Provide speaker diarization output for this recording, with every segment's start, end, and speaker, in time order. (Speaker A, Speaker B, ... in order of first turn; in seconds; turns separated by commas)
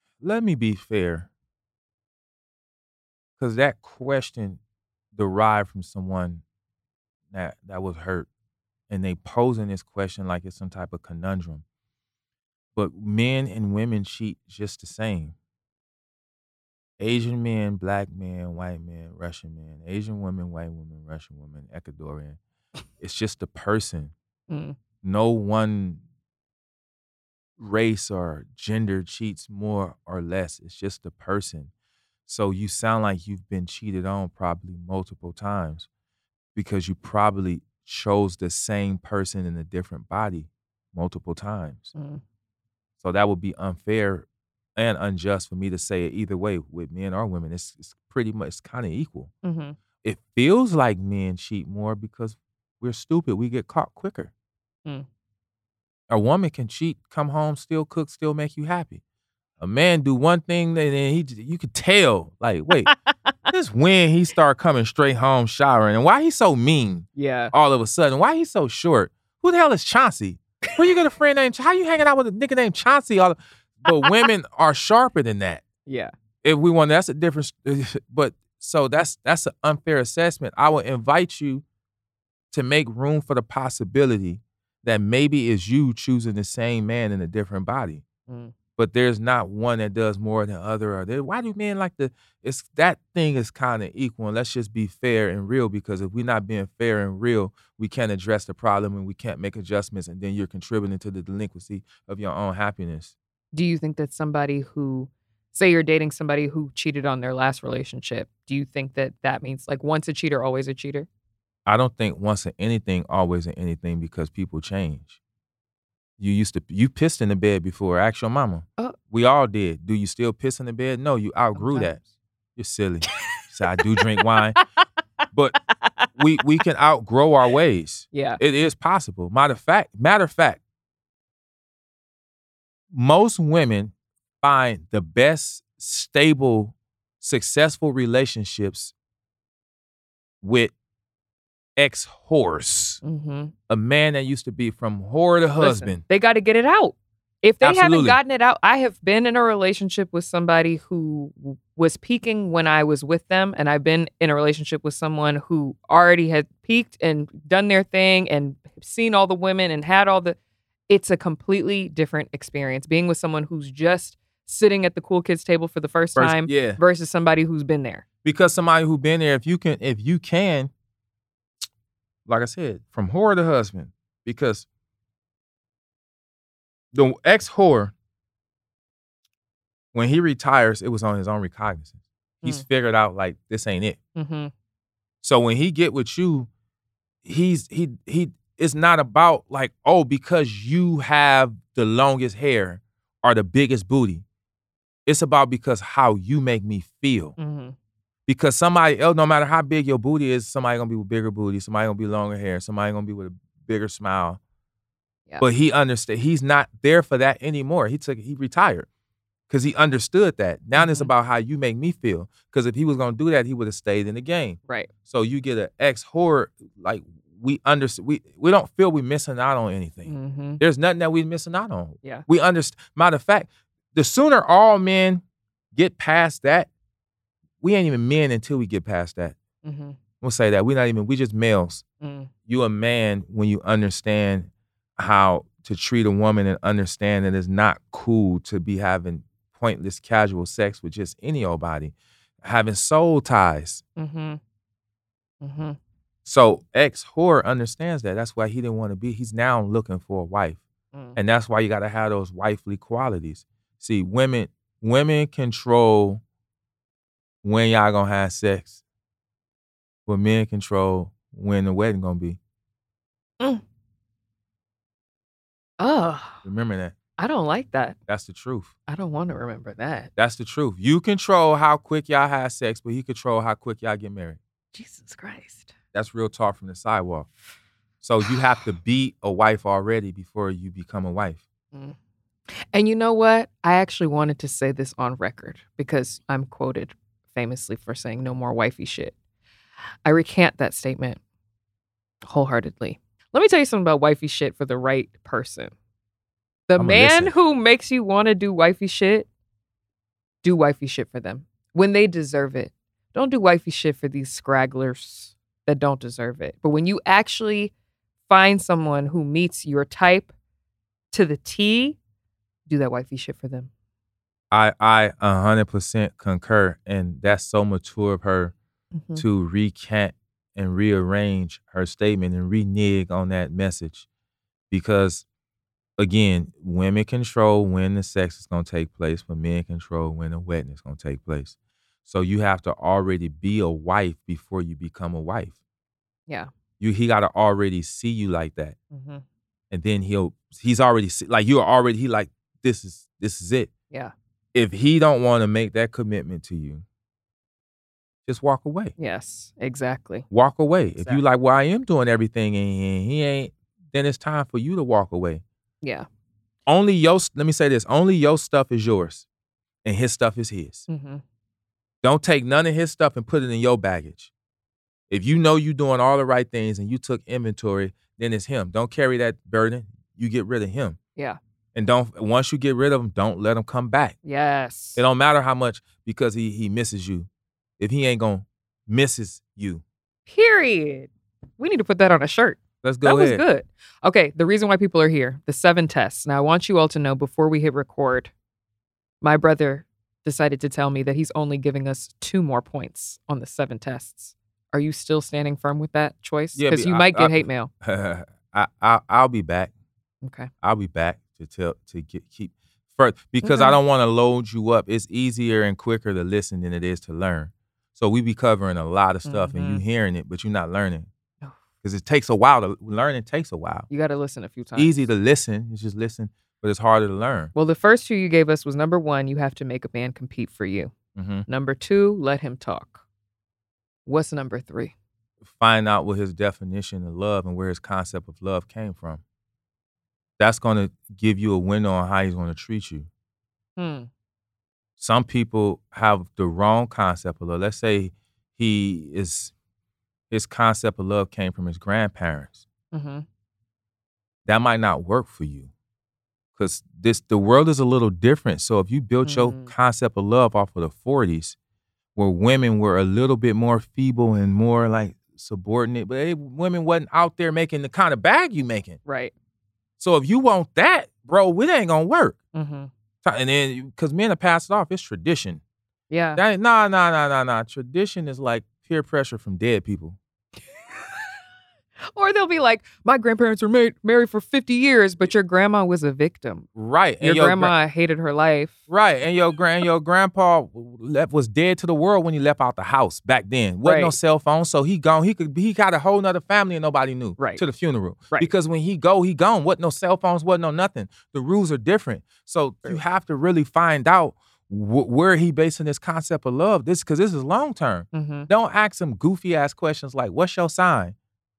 Speaker A: 0.2-1.3, Speaker A: 3.4-4.6, Speaker A: 5.1-6.4, Speaker A: 7.3-8.3, Speaker A: 8.9-11.6, Speaker A: 12.8-15.3, Speaker A: 17.0-22.4, Speaker A: 23.0-24.1, Speaker B: 24.5-24.8, Speaker A: 25.0-26.0, Speaker A: 27.6-31.7, Speaker A: 32.2-35.9, Speaker A: 36.5-41.9, Speaker B: 41.9-42.2, Speaker A: 43.0-49.3, Speaker B: 49.4-49.8, Speaker A: 50.0-54.3, Speaker A: 56.1-59.0, Speaker A: 59.6-62.9, Speaker B: 62.9-63.3, Speaker A: 63.5-75.6, Speaker B: 67.2-67.5, Speaker B: 75.9-76.1, Speaker A: 76.4-81.6, Speaker A: 82.5-88.0, Speaker B: 88.3-88.5, Speaker A: 88.8-103.1, Speaker B: 103.5-111.1, Speaker A: 111.7-115.2, Speaker A: 116.2-122.0, Speaker B: 121.5-122.1, Speaker A: 122.5-124.6, Speaker B: 123.7-124.6, Speaker A: 125.3-125.6, Speaker B: 125.7-126.1, Speaker A: 126.1-130.6, Speaker B: 128.1-128.4, Speaker A: 132.9-138.9, Speaker A: 140.4-140.7, Speaker A: 141.8-143.0, Speaker B: 143.0-143.5, Speaker A: 143.7-146.0, Speaker B: 145.6-160.3, Speaker A: 147.6-148.2, Speaker B: 160.9-168.0, Speaker A: 166.1-166.8, Speaker A: 168.2-170.7, Speaker A: 172.3-174.7, Speaker A: 176.9-177.9, Speaker A: 179.9-184.0, Speaker B: 184.2-184.5, Speaker A: 185.2-186.5, Speaker A: 187.2-194.2, Speaker A: 195.1-197.3, Speaker B: 197.4-197.7, Speaker A: 198.3-204.4, Speaker A: 205.4-208.9, Speaker A: 209.5-225.2, Speaker B: 210.8-211.1, Speaker B: 220.1-220.6, Speaker A: 225.7-226.7, Speaker A: 227.6-229.4, Speaker B: 229.6-230.0, Speaker A: 230.2-231.8, Speaker B: 232.0-232.3, Speaker A: 232.5-243.8, Speaker B: 244.0-244.4, Speaker B: 245.4-245.8, Speaker A: 246.2-250.6, Speaker B: 250.9-251.2, Speaker A: 251.2-256.2, Speaker A: 257.4-258.8, Speaker A: 260.1-262.4, Speaker B: 265.8-266.4, Speaker A: 266.4-267.0, Speaker B: 267.2-268.0, Speaker A: 268.1-268.7, Speaker B: 268.9-270.1, Speaker A: 270.1-274.4, Speaker B: 274.7-275.7, Speaker A: 275.9-277.3, Speaker A: 278.0-281.4, Speaker B: 282.6-289.1, Speaker B: 290.0-291.2, Speaker B: 292.2-295.7, Speaker B: 296.7-299.3, Speaker A: 296.8-297.3, Speaker B: 300.4-307.7, Speaker B: 308.3-310.3, Speaker B: 311.1-312.0, Speaker B: 312.7-313.7, Speaker A: 314.5-318.5, Speaker B: 318.9-319.2, Speaker A: 319.1-324.1, Speaker A: 324.7-325.2, Speaker A: 326.0-335.6, Speaker A: 336.8-338.8, Speaker B: 338.9-339.2, Speaker A: 339.7-343.7, Speaker A: 344.5-346.8, Speaker A: 348.2-348.9, Speaker B: 349.0-350.2, Speaker A: 350.3-355.4, Speaker B: 355.8-356.1, Speaker A: 356.6-359.2, Speaker A: 359.8-360.9, Speaker B: 360.9-361.2, Speaker A: 362.0-364.3, Speaker A: 365.1-371.0, Speaker A: 371.7-374.2, Speaker B: 374.2-375.0, Speaker A: 374.9-379.8, Speaker B: 380.3-388.3, Speaker A: 382.8-383.4, Speaker B: 389.2-397.7, Speaker A: 396.6-399.7, Speaker B: 400.2-400.5, Speaker A: 400.6-411.1, Speaker B: 403.4-403.8, Speaker B: 409.2-409.8, Speaker A: 411.8-413.9, Speaker B: 413.9-415.0, Speaker A: 414.8-417.5, Speaker B: 417.5-420.9, Speaker A: 421.1-421.4, Speaker B: 421.5-423.0, Speaker B: 424.1-424.9, Speaker A: 425.4-429.2, Speaker A: 430.4-433.1, Speaker B: 433.8-434.1, Speaker A: 435.0-439.5, Speaker A: 440.3-442.6, Speaker B: 442.9-443.2, Speaker A: 444.4-445.7, Speaker A: 446.6-451.6, Speaker B: 449.2-449.7, Speaker A: 452.1-459.0, Speaker B: 459.1-459.3, Speaker A: 460.0-462.4, Speaker B: 462.5-462.9, Speaker A: 463.2-465.6, Speaker B: 466.1-466.4, Speaker A: 466.3-470.2, Speaker B: 472.1-476.7, Speaker A: 476.8-477.7, Speaker B: 477.2-478.7, Speaker A: 478.9-501.1, Speaker B: 483.8-484.1, Speaker B: 487.4-487.6, Speaker B: 498.1-498.5